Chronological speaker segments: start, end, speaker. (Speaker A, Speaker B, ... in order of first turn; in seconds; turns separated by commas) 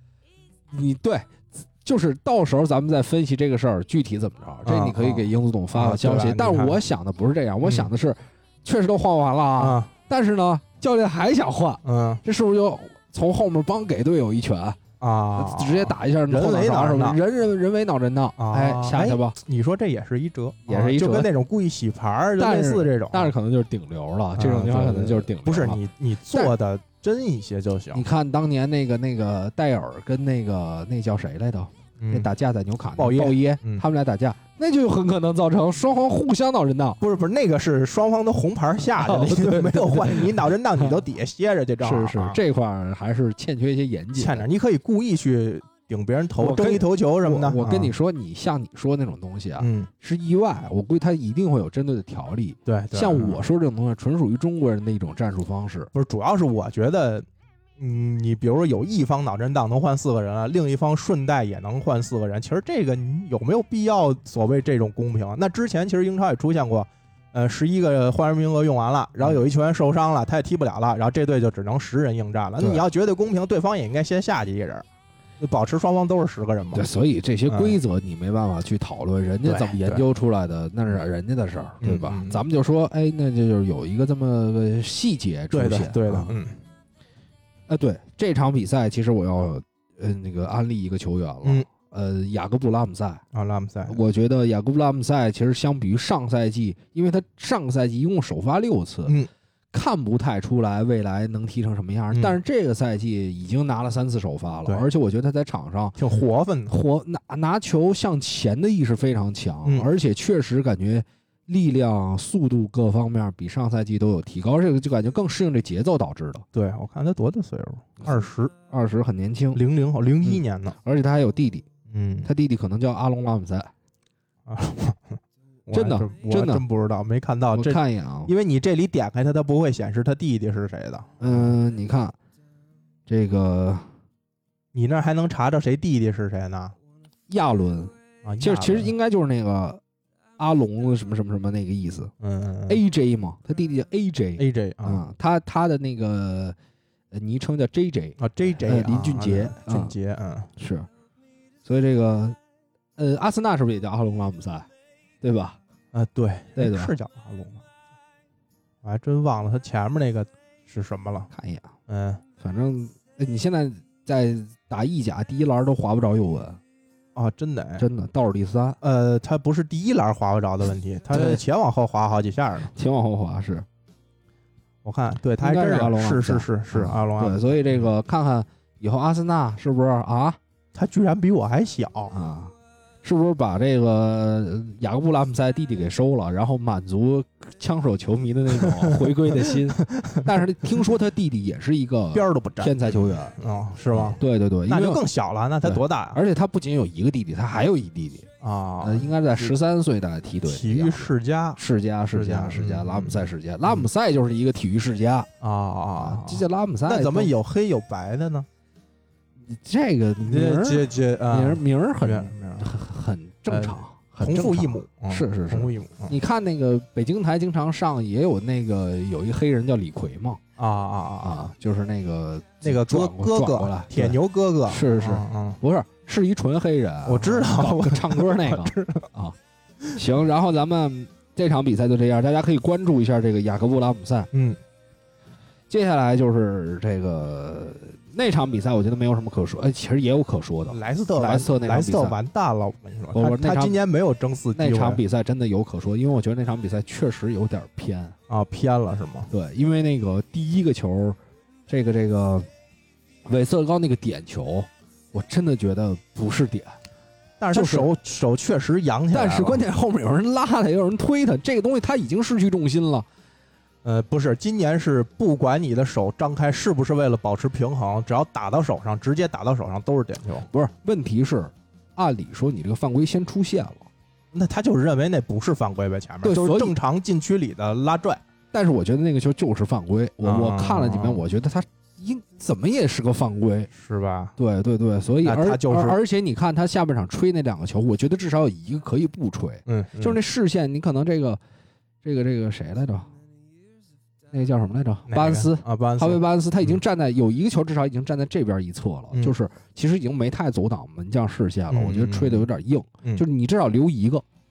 Speaker A: 0.7-14.8, Speaker B: 4.7-6.8, Speaker B: 7.6-7.9, Speaker B: 9.6-9.9, Speaker B: 11.8-12.2, Speaker B: 15.0-17.2, Speaker A: 15.4-19.4, Speaker B: 18.4-23.3, Speaker A: 20.7-21.3, Speaker A: 22.4-25.8, Speaker B: 24.4-28.1, Speaker A: 27.9-37.0, Speaker B: 32.0-32.3, Speaker B: 33.0-33.8, Speaker B: 37.0-42.4, Speaker A: 39.0-40.4, Speaker A: 41.8-44.5, Speaker B: 44.2-47.9, Speaker A: 46.4-55.9, Speaker B: 49.6-49.9, Speaker B: 52.7-53.4, Speaker B: 55.9-57.3, Speaker B: 57.8-74.8, Speaker B: 75.4-76.9, Speaker A: 76.7-86.3, Speaker B: 77.5-77.8, Speaker B: 79.4-80.1, Speaker B: 81.8-82.4, Speaker B: 85.5-86.6, Speaker A: 87.7-93.2, Speaker B: 93.3-94.0, Speaker A: 93.9-99.2, Speaker A: 99.7-106.0, Speaker B: 102.1-102.4, Speaker B: 106.0-106.7, Speaker A: 106.7-116.5, Speaker B: 116.5-118.5, Speaker A: 118.7-119.6, Speaker B: 119.5-120.8, Speaker A: 120.2-121.7, Speaker B: 121.9-122.3, Speaker A: 122.2-123.7, Speaker B: 124.5-131.5, Speaker A: 125.7-126.6, Speaker A: 127.5-128.3, Speaker A: 131.2-132.2, Speaker A: 133.1-133.9, Speaker B: 134.7-136.8, Speaker A: 137.3-139.8, Speaker B: 138.2-138.9, Speaker A: 140.4-142.1, Speaker B: 142.2-142.8, Speaker A: 142.7-146.6, Speaker B: 144.4-145.0, Speaker A: 147.1-149.9, Speaker B: 148.2-150.5, Speaker A: 150.6-150.9, Speaker A: 151.7-152.4, Speaker A: 153.0-154.7, Speaker A: 155.2-155.6, Speaker B: 155.9-157.6, Speaker A: 156.6-156.9, Speaker B: 158.8-161.3, Speaker A: 161.3-161.7, Speaker B: 161.9-162.2, Speaker A: 162.4-166.6, Speaker B: 167.2-167.8, Speaker A: 167.8-168.8, Speaker B: 168.8-172.7, Speaker A: 171.1-171.4, Speaker A: 172.7-173.7, Speaker B: 174.8-177.9, Speaker A: 175.4-180.4, Speaker B: 180.7-182.1, Speaker A: 182.1-193.4, Speaker B: 188.5-190.3, Speaker B: 192.1-196.2, Speaker A: 193.9-195.0, Speaker A: 195.6-198.3, Speaker B: 198.4-199.6, Speaker A: 198.8-205.3, Speaker B: 200.4-201.6, Speaker B: 202.1-203.9, Speaker B: 205.4-208.5, Speaker A: 206.0-207.3, Speaker A: 209.5-220.4, Speaker B: 210.3-212.7, Speaker B: 213.5-216.2, Speaker B: 220.6-221.5, Speaker A: 221.2-229.4, Speaker B: 222.6-225.6, Speaker B: 227.1-229.1, Speaker A: 229.9-234.3, Speaker B: 234.3-234.6, Speaker A: 235.7-242.2, Speaker B: 240.7-245.0, Speaker A: 243.1-243.8, Speaker A: 244.5-248.2, Speaker B: 248.3-249.3, Speaker A: 249.3-252.5, Speaker A: 253.2-256.8, Speaker B: 257.4-259.6, Speaker A: 257.5-257.9, Speaker A: 259.1-263.1, Speaker B: 263.8-270.5, Speaker A: 270.5-273.9, Speaker B: 274.3-278.2, Speaker A: 276.2-276.7, Speaker A: 278.5-283.7, Speaker B: 280.2-281.2, Speaker B: 283.7-284.3, Speaker A: 284.4-291.4, Speaker B: 285.2-286.0, Speaker B: 289.7-290.2, Speaker A: 292.0-293.1, Speaker A: 294.3-304.2, Speaker B: 295.1-296.8, Speaker B: 299.1-299.4, Speaker B: 301.7-302.5